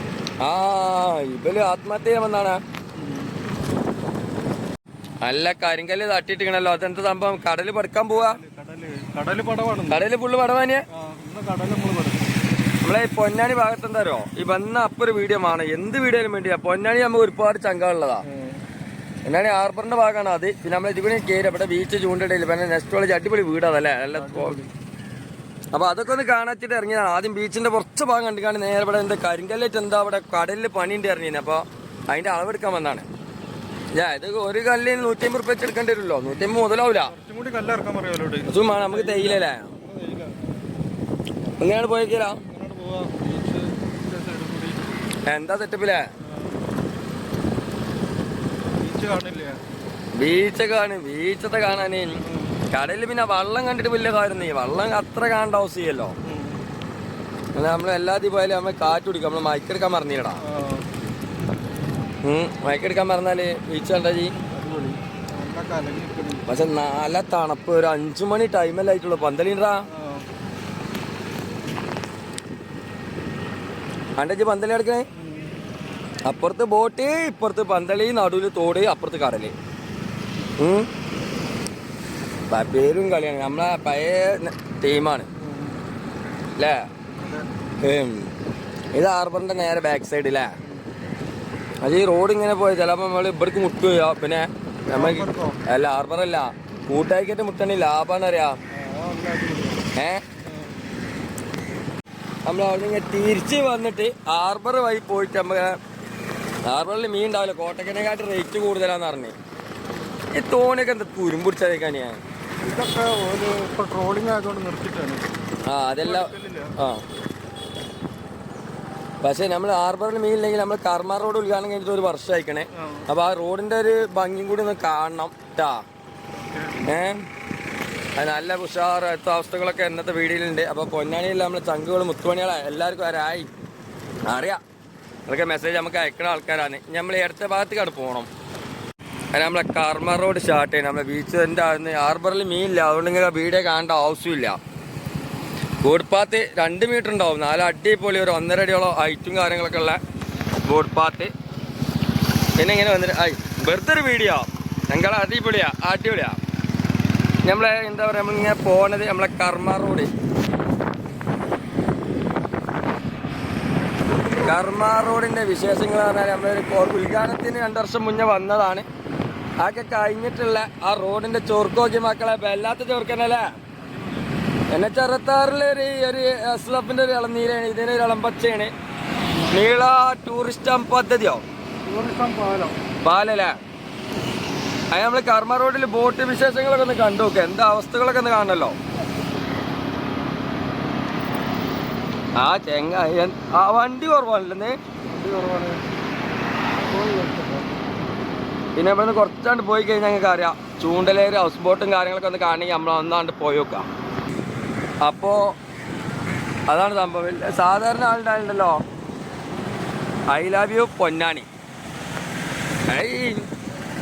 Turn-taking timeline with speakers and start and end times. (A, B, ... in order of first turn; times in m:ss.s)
0:00.4-0:02.6 A
0:03.0-0:03.3 B
0:05.2-0:08.4 A
0:08.1-0:10.0 B
0:09.9-0:10.8 A
0:10.9-0:12.3 B
0:12.8-0:18.2 A
0:18.2-0:18.6 B
0:19.2-0:24.6 A
0:24.1-0:24.7 B
0:25.7-0:33.0 A
0:33.9-0:37.1 A
0:36.9-0:40.6 B
0:38.5-0:39.7 A
0:41.6-0:42.4 A
0:42.4-0:44.9 B
0:45.2-0:46.0 A
0:46.2-0:46.7 B
0:48.8-0:49.6 B
0:50.2-0:52.2 A
0:52.2-0:52.6 B
0:52.7-0:56.1 A
0:56.2-0:56.6 B
0:57.5-1:00.4 A
1:00.4-1:00.9 B
1:02.2-1:04.4 A
1:04.4-1:06.4 B
1:06.5-1:09.8 A
1:09.9-1:10.2 B
1:14.2-1:15.0 A
1:15.1-1:15.5 B
1:16.2-1:19.5 A
1:20.6-1:20.9 A
1:22.5-1:25.3 A
1:25.4-1:25.8 B
1:26.6-1:26.9 A
1:27.1-1:27.4 B
1:27.8-1:28.3 A
1:28.9-1:30.5 A
1:31.8-1:38.6 A
1:34.9-1:35.6 B
1:38.7-1:40.8 B
1:39.9-1:40.2 A
1:42.4-1:45.8 A
1:46.7-1:49.3 A
1:50.3-1:52.2 A
1:52.6-1:55.2 B
1:55.7-1:57.0 A
1:56.0-1:56.7 B
1:59.2-2:05.8 A
2:02.7-2:03.1 B
2:06.4-2:06.8 B
2:06.8-2:07.2 A
2:08.2-2:13.5 A
2:14.3-2:14.6 A
2:15.3-2:18.3 A
2:19.3-2:24.6 A
2:25.8-2:30.0 A
2:30.7-2:31.3 A
2:32.6-2:36.4 A
2:37.4-2:40.1 A
2:44.4-2:48.8 A
2:49.6-2:53.5 A
2:53.8-2:54.3 B
2:54.7-2:58.7 A
2:59.5-3:01.4 A
3:01.8-3:02.8 B
3:03.0-3:03.6 A
3:04.9-3:08.8 A
3:12.4-3:14.8 A
3:15.1-3:15.8 B
3:16.7-3:17.7 B
3:18.8-3:23.9 A
3:25.0-3:25.5 A
3:26.7-3:28.8 A
3:30.3-3:31.5 A
3:32.9-3:33.4 A